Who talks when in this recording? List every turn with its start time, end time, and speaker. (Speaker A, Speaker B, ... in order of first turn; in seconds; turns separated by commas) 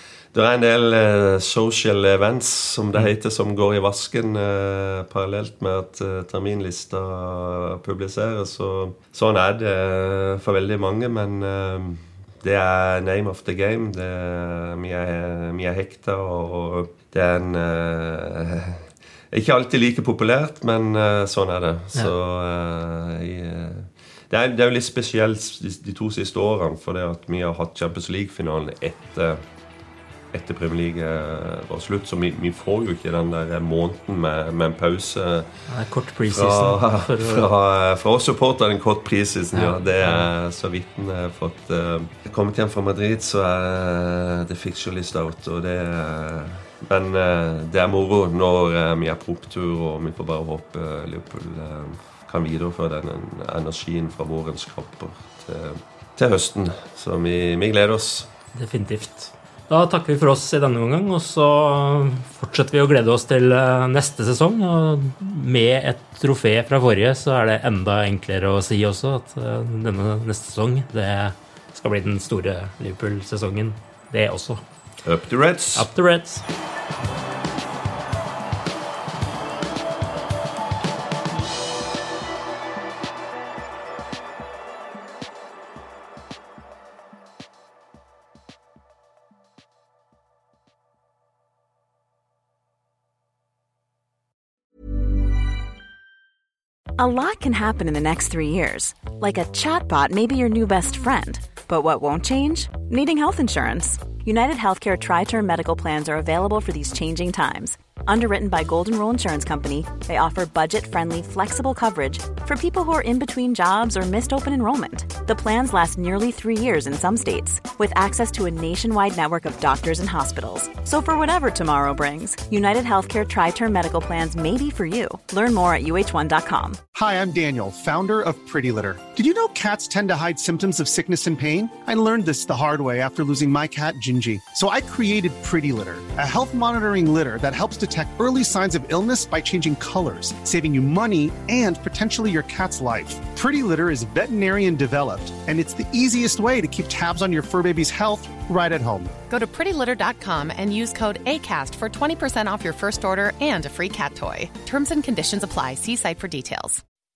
Speaker A: 0.3-29.4, Speaker A: 30.3-35.5, Speaker B: 35.7-37.5, Speaker A: 36.3-58.3, Speaker B: 39.5-40.3, Speaker B: 58.5-74.6, Speaker A: 75.0-75.9, Speaker B: 75.8-76.4, Speaker C: 97.0-126.8, Speaker D: 126.9-149.1, Speaker E: 149.3-156.8